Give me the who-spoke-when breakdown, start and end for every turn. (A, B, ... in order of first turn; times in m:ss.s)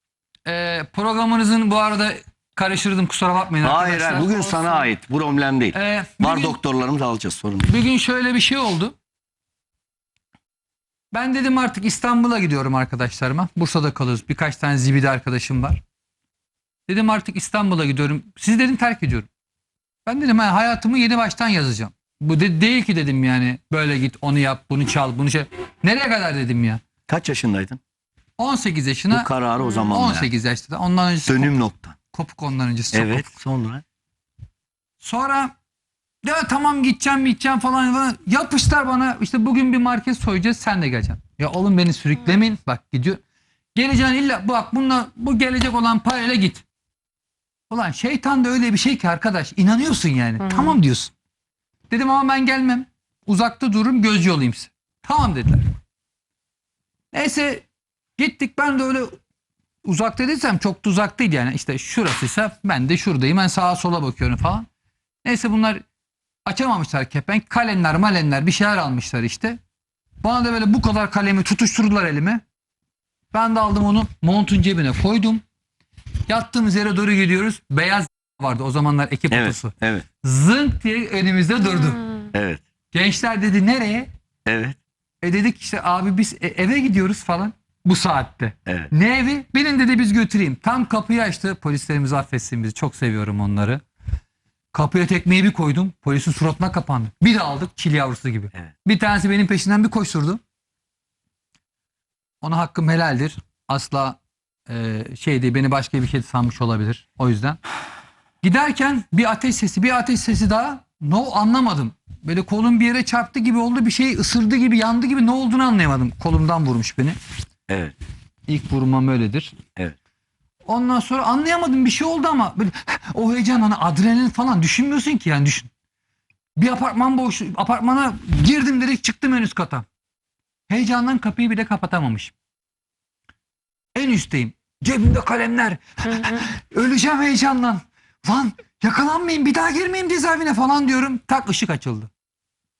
0:00.4-0:04.9 A
0:03.6-0:07.7 B
0:05.7-0:06.6 A
0:07.6-0:08.9 A
0:11.1-0:15.8 A
0:16.9-0:19.3 A
0:20.0-0:26.8 A
0:27.1-0:27.8 B
0:28.4-0:29.3 A
0:29.1-0:30.3 B
0:29.6-0:29.9 C
0:29.9-0:33.3 A
0:31.2-0:32.0 B
0:32.9-0:33.8 B
0:35.0-0:35.5 A
0:36.2-0:43.2 A
0:43.7-0:46.6 A
0:47.7-0:51.1 A
0:50.4-0:50.8 C
0:51.9-0:55.8 A
0:57.1-0:57.6 A
0:58.2-0:59.2 A
0:59.8-1:04.7 A
1:05.2-1:05.8 A
1:06.4-1:09.6 A
1:10.2-1:12.4 A
1:13.3-1:15.4 A
1:16.3-1:22.0 A
1:19.3-1:20.0 B
1:21.6-1:22.3 C
1:22.3-1:22.6 B
1:22.9-1:24.1 A
1:24.4-1:24.8 B
1:25.2-1:33.8 A
1:28.6-1:28.9 B
1:34.7-1:40.4 A
1:42.4-1:47.6 A
1:48.4-1:57.2 A
1:57.7-1:57.9 B
1:58.5-1:59.6 A
2:00.6-2:05.7 A
2:06.6-2:09.8 A
2:10.7-2:12.3 A
2:13.9-2:22.1 A
2:16.1-2:16.4 C